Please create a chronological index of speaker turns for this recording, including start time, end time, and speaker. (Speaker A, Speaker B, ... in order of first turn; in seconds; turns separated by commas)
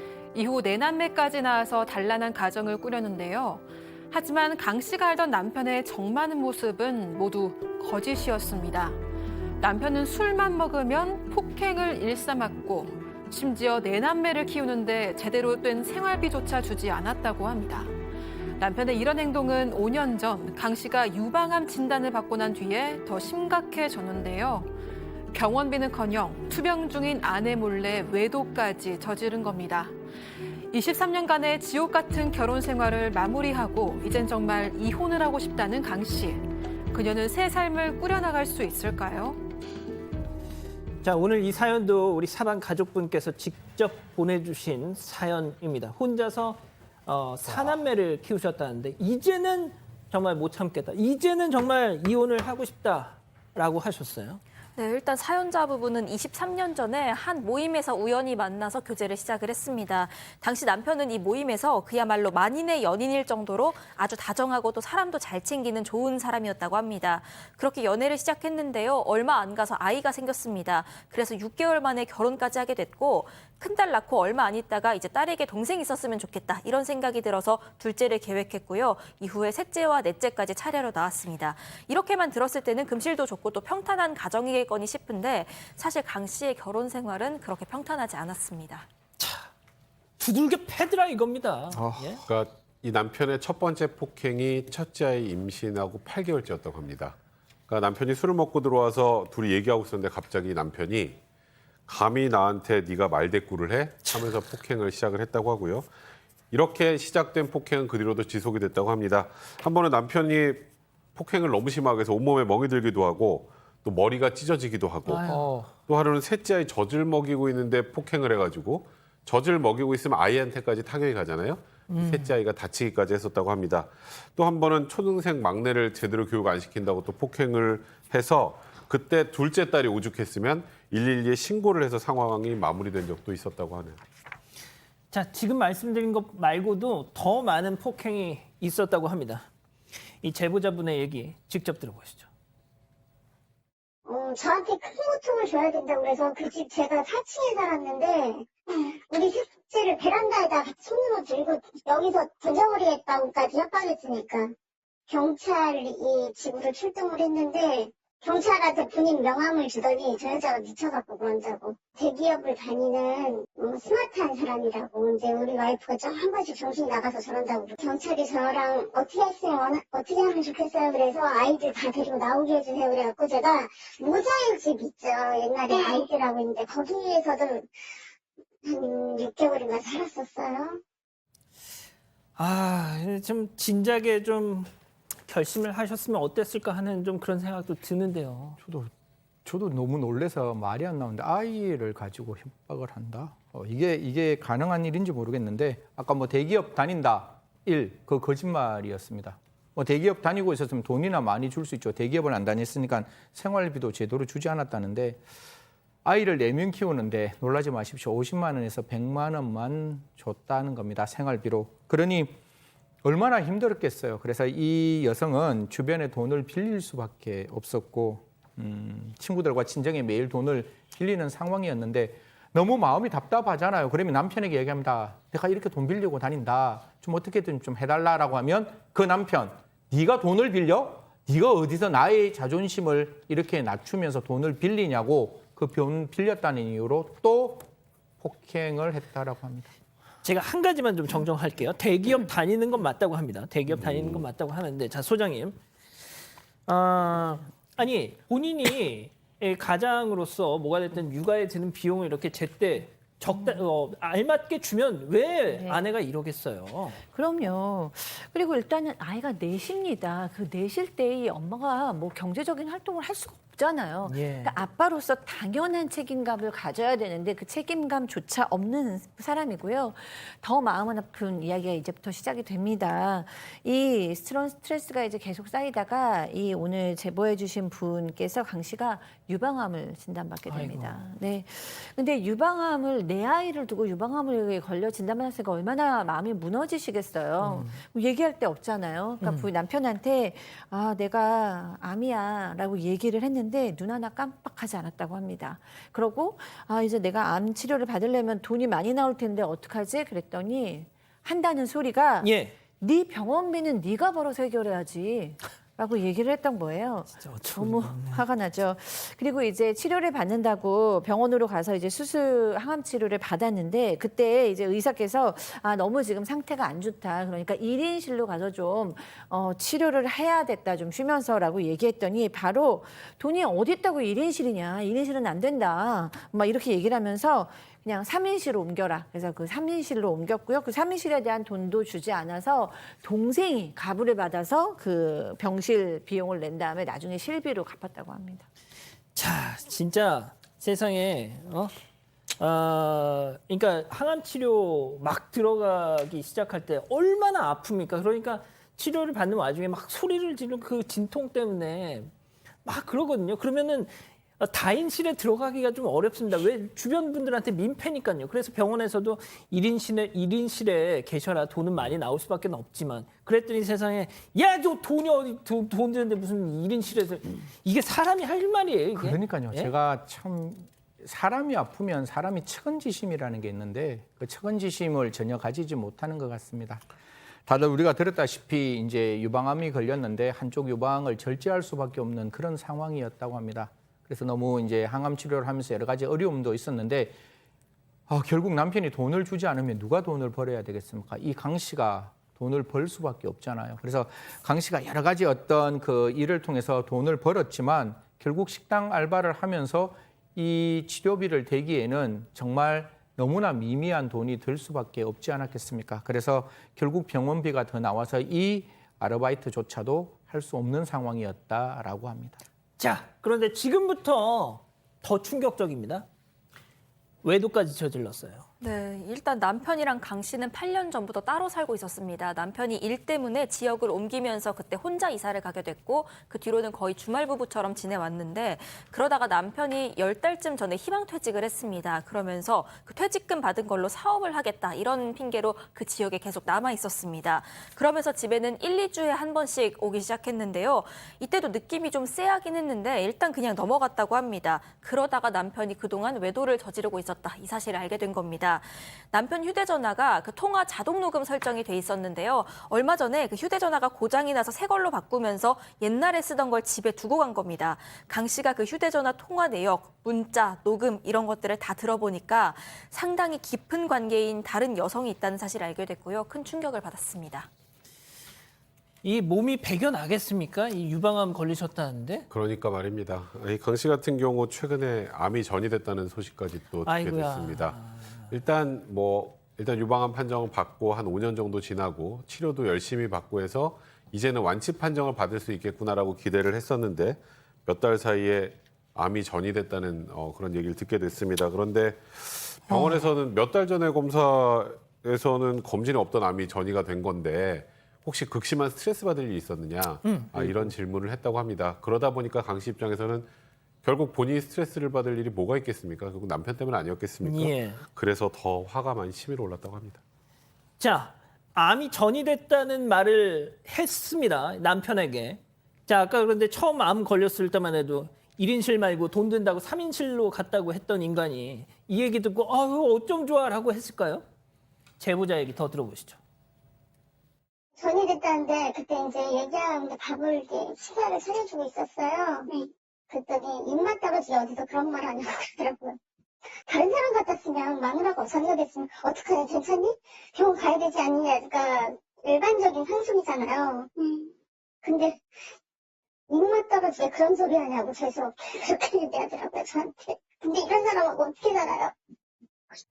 Speaker A: 0.3-9.0, Speaker A: 9.6-17.9, Speaker A: 18.6-24.7, Speaker A: 25.3-29.9, Speaker A: 30.7-39.4, Speaker B: 41.0-54.4, Speaker C: 54.8-88.9, Speaker B: 89.2-89.5, Speaker B: 90.2-92.2, Speaker D: 91.7-92.0, Speaker E: 92.3-97.2, Speaker E: 97.7-101.2, Speaker E: 101.9-105.9, Speaker E: 106.5-115.3, Speaker B: 115.1-115.7, Speaker E: 115.9-134.0, Speaker B: 121.9-122.3, Speaker B: 135.1-139.5, Speaker B: 140.2-142.3, Speaker F: 144.1-154.5, Speaker F: 155.1-177.7, Speaker F: 178.6-180.8, Speaker B: 182.4-184.7, Speaker B: 185.3-188.6, Speaker D: 188.6-188.9, Speaker D: 189.4-205.2, Speaker D: 206.1-212.3, Speaker D: 213.0-239.7, Speaker B: 240.2-245.6, Speaker B: 246.7-257.0, Speaker G: 255.5-255.8, Speaker G: 257.1-338.5, Speaker B: 264.0-264.6, Speaker B: 280.5-281.0, Speaker B: 287.4-287.8, Speaker B: 302.2-302.6, Speaker B: 307.2-308.2, Speaker B: 339.1-341.7, Speaker B: 342.4-352.1, Speaker B: 352.6-369.7, Speaker D: 369.0-376.8, Speaker D: 377.5-387.1, Speaker D: 388.1-412.4, Speaker B: 412.8-416.1, Speaker B: 417.2-418.5, Speaker C: 418.6-467.5, Speaker B: 469.0-472.3, Speaker E: 472.3-477.8, Speaker B: 476.8-478.2, Speaker E: 478.3-503.3, Speaker B: 500.0-500.7, Speaker E: 503.8-510.0, Speaker B: 507.2-507.8, Speaker B: 510.8-524.2, Speaker B: 525.0-526.2, Speaker F: 527.8-532.5, Speaker F: 533.1-536.0, Speaker F: 536.7-543.9, Speaker F: 544.8-545.2, Speaker F: 546.3-552.0